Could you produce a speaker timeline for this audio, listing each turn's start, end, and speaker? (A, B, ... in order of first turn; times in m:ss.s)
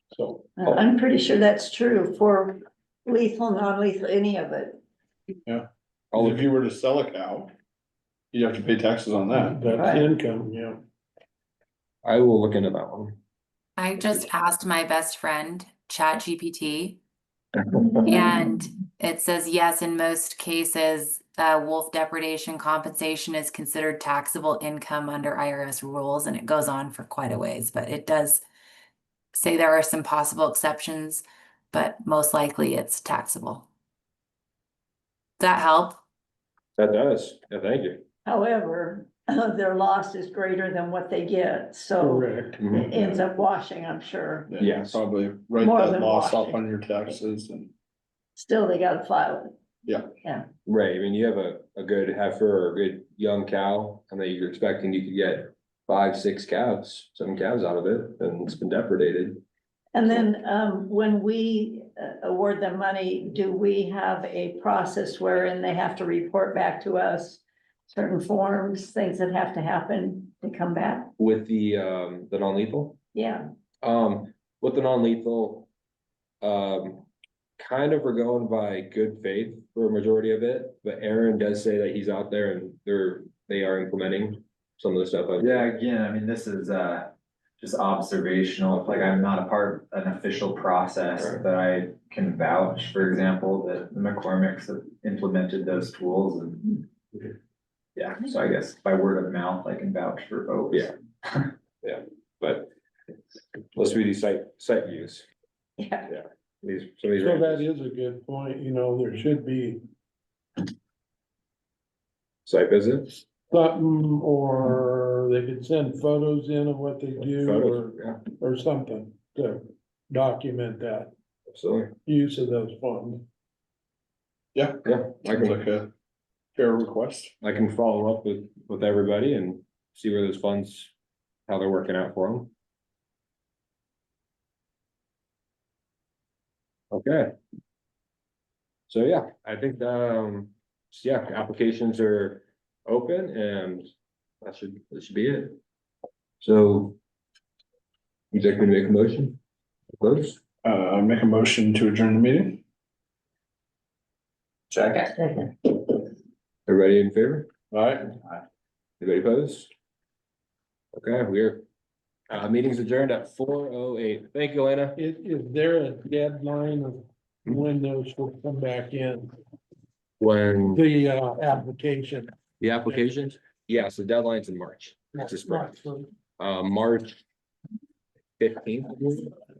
0:00.1-0:00.5 A
0:00.6-0:04.8 B
0:05.5-0:07.5 C
0:06.1-0:06.5 D
0:08.3-0:09.6 C
0:09.5-0:10.8 A
0:09.7-0:10.1 B
0:12.0-0:13.2 D
0:13.8-0:17.0 E
0:18.0-0:28.4 E
0:29.3-0:33.7 E
0:35.4-0:36.0 E
0:36.8-0:38.0 D
0:38.3-0:44.5 B
0:42.0-0:43.2 A
0:42.6-0:42.9 D
0:44.5-0:47.7 C
0:44.6-0:45.0 D
0:45.6-0:46.6 B
0:48.4-0:49.5 B
0:50.7-0:59.4 D
0:59.9-1:11.1 B
1:11.2-1:13.0 D
1:13.1-1:13.4 B
1:13.8-1:15.7 D
1:16.4-1:17.1 D
1:17.6-1:25.7 D
1:25.4-1:36.8 F
1:28.7-1:29.2 D
1:31.2-1:31.4 D
1:38.0-1:41.5 F
1:41.8-1:42.7 D
1:43.8-1:45.3 D
1:45.8-1:46.1 B
1:46.1-1:47.6 D
1:47.2-1:49.8 A
1:52.5-1:53.2 D
1:53.5-2:01.1 A
1:57.2-1:58.2 D
2:01.5-2:01.9 D
2:02.1-2:03.2 A
2:04.6-2:05.9 C
2:04.8-2:05.6 D
2:06.6-2:07.3 C
2:07.4-2:10.9 D
2:11.5-2:12.5 D
2:16.9-2:17.3 D
2:18.9-2:23.9 D
2:24.4-2:25.6 D
2:26.4-2:27.0 D
2:28.3-2:29.4 D
2:30.0-2:30.4 D
2:30.6-2:32.6 C
2:34.8-2:35.5 B
2:36.7-2:37.5 D
2:37.7-2:38.1 A
2:39.0-2:39.7 D
2:41.0-2:41.6 D
2:42.3-2:45.0 D
2:45.0-2:49.3 A
2:50.2-2:50.8 D
2:50.7-2:52.3 A
2:52.6-2:55.8 D
2:55.3-2:56.1 A
2:56.4-2:57.2 D
2:58.4-2:59.4 D